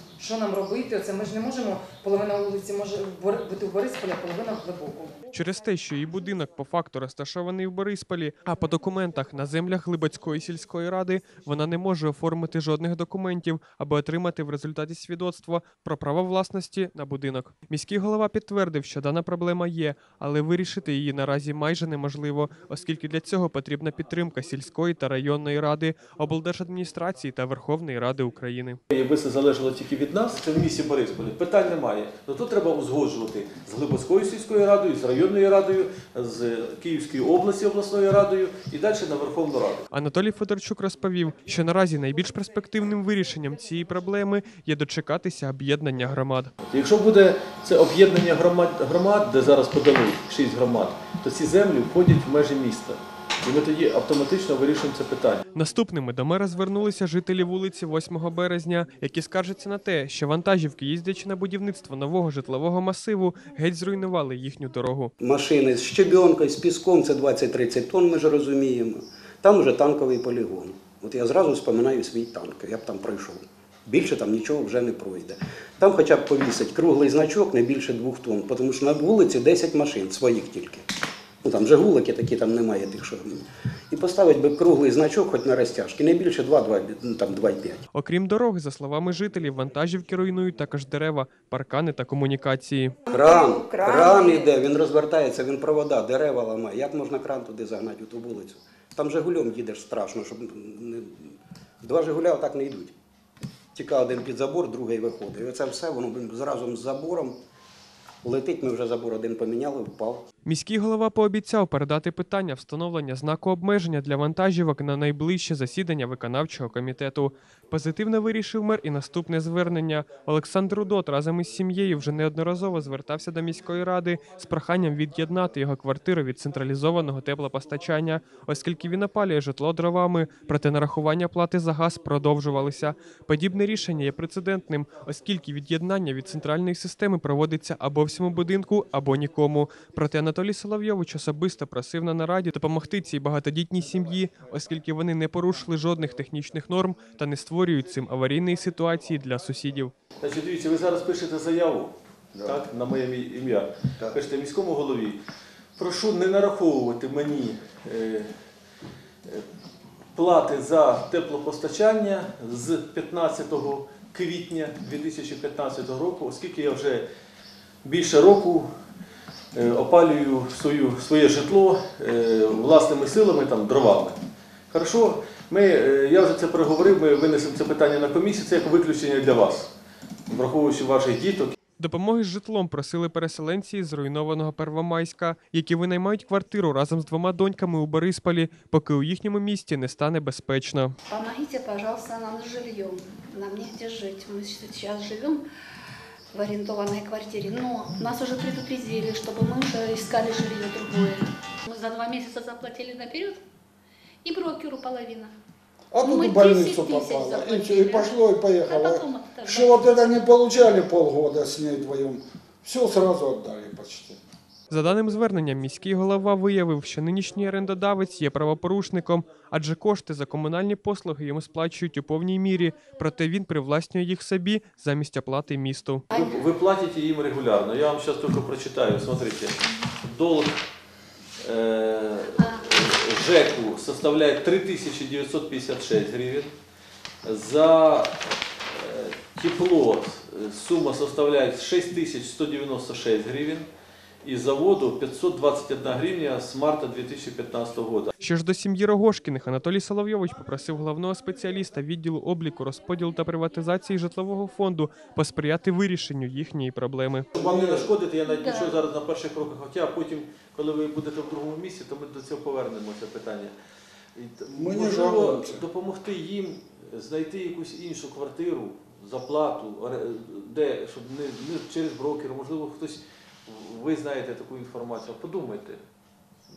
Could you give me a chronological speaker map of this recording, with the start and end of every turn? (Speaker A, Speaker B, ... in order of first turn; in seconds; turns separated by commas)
Speaker A: 0.2-5.1, Speaker B: 5.3-28.8, Speaker C: 28.9-39.9, Speaker B: 39.9-46.5, Speaker C: 46.7-55.4, Speaker B: 55.5-65.1, Speaker D: 65.2-80.9, Speaker D: 81.4-87.8, Speaker B: 87.9-93.0, Speaker E: 93.1-94.5, Speaker D: 93.1-102.9, Speaker D: 103.7-107.3, Speaker D: 108.2-110.2, Speaker B: 110.5-149.9, Speaker C: 150.2-155.2, Speaker C: 155.8-158.3, Speaker C: 160.2-167.1, Speaker C: 167.8-168.7, Speaker C: 169.5-174.2, Speaker C: 174.7-179.7, Speaker C: 180.3-181.6, Speaker B: 181.8-190.9, Speaker E: 191.1-195.4, Speaker E: 196.3-203.4, Speaker E: 204.2-205.3, Speaker F: 205.9-214.2, Speaker E: 206.0-208.1, Speaker E: 208.6-210.1, Speaker B: 214.7-226.1, Speaker C: 226.1-230.5, Speaker C: 231.4-236.5, Speaker C: 237.2-238.1, Speaker C: 238.7-243.7, Speaker C: 244.2-248.1, Speaker B: 248.2-257.3, Speaker C: 257.4-263.5, Speaker F: 257.4-257.9, Speaker E: 258.3-258.7, Speaker C: 264.2-275.8, Speaker F: 264.6-265.6